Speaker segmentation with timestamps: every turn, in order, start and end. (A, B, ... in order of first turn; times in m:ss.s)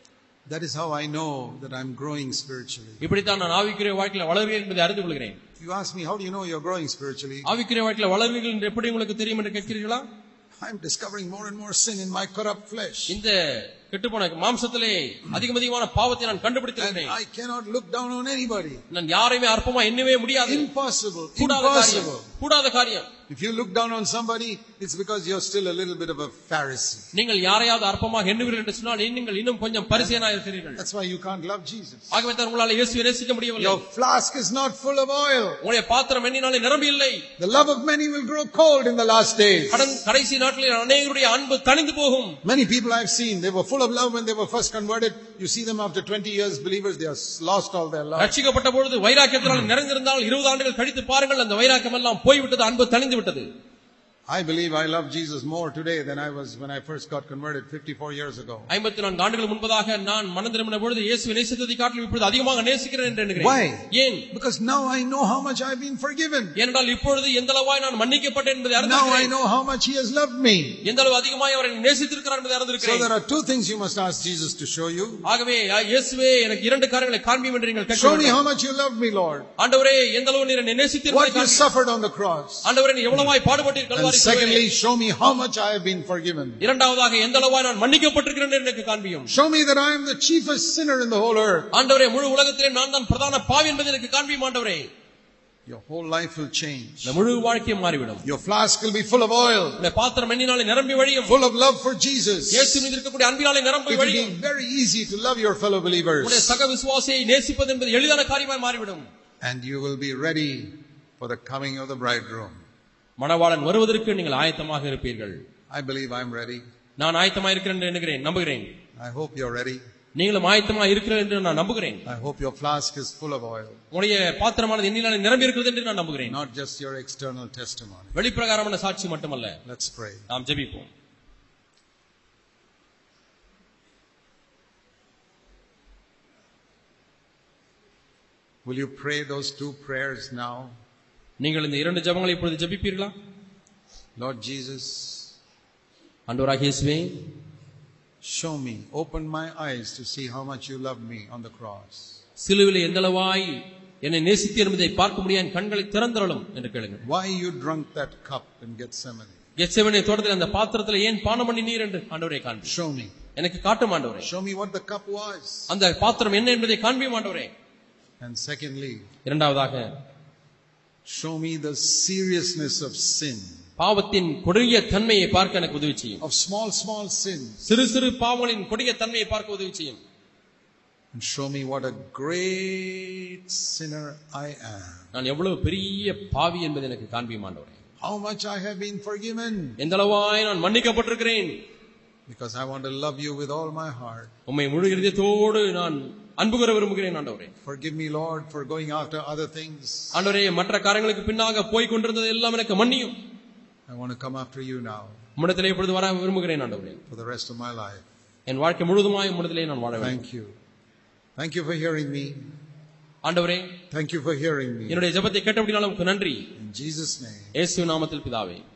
0:00.5-0:03.1 A
0:03.0-0:05.4 B
0:05.6-0:07.5 A
0:07.4-0:10.0 B
0:10.6-0:13.2 A
0:13.1-0:17.2 B
0:16.8-0:18.8 A
0:18.9-0:20.7 B
0:20.4-0:22.3 A
0:21.4-0:23.1 B
0:23.3-0:27.1 A
0:27.1-0:30.8 B
0:30.0-0:30.2 A
0:30.8-0:32.2 A
0:32.1-0:33.8 B
0:33.6-0:35.6 A
0:35.6-0:37.2 B
0:37.4-0:40.0 A
0:39.7-0:42.4 B
0:42.4-0:48.3 A
0:48.2-0:53.5 B
0:54.3-0:58.7 A
0:58.7-1:04.3 B
1:03.4-1:06.6 A
1:06.6-1:09.3 B
1:08.8-1:10.8 A
1:10.8-1:13.1 B
1:12.8-1:15.3 A
1:15.2-1:18.4 B
1:17.9-1:19.5 A
1:19.6-1:21.7 B
1:21.1-1:22.7 A
1:22.6-1:24.6 B
1:24.0-1:26.6 A
1:26.6-1:29.3 B
1:29.3-1:31.7 A
1:31.7-1:34.9 B
1:35.7-1:37.2 A
1:37.0-1:38.2 B
1:38.2-1:39.8 A
1:39.8-1:41.4 B
1:41.3-1:42.9 A
1:42.5-1:44.3 B
1:43.9-1:46.6 A
1:46.2-1:49.1 B
1:49.4-1:52.6 A
1:53.2-1:55.4 B
1:55.7-1:56.6 A
1:57.0-1:58.7 B
1:59.0-1:59.8 A
2:00.2-2:02.0 B
2:02.1-2:03.8 A
2:03.9-2:06.4 B
2:06.2-2:08.2 A
2:08.2-2:09.6 B
2:09.7-2:10.3 A
2:10.3-2:10.9 B
2:18.6-2:20.8 A
2:21.4-2:23.1 B
2:24.2-2:25.3 A
2:26.3-2:27.3 B
2:28.2-2:32.2 A
2:32.4-2:33.5 B
2:34.0-2:37.0 B
2:37.0-2:39.4 A
2:39.6-2:42.8 B
2:42.6-2:43.2 A
2:43.4-2:44.3 B
2:44.2-2:45.7 A
2:45.7-2:47.5 B
2:48.2-2:49.1 A
2:49.3-2:49.9 B
2:51.1-2:53.6 A
2:53.8-2:56.2 B
2:56.2-2:57.6 A
2:57.6-3:00.0 B
3:01.1-3:05.1 A
3:05.1-3:07.8 B
3:08.0-3:09.8 A
3:09.8-3:11.6 B
3:12.3-3:14.3 A
3:14.5-3:17.5 B
3:17.6-3:20.2 A
3:20.1-3:23.2 B
3:23.9-3:25.2 A
3:25.4-3:27.0 B
3:27.1-3:28.0 A
3:28.5-3:30.2 B
3:30.0-3:30.5 A
3:31.4-3:32.4 A
3:33.2-3:33.7 B
3:33.9-3:35.1 A
3:34.9-3:36.5 B
3:36.6-3:37.6 A
3:37.6-3:38.6 B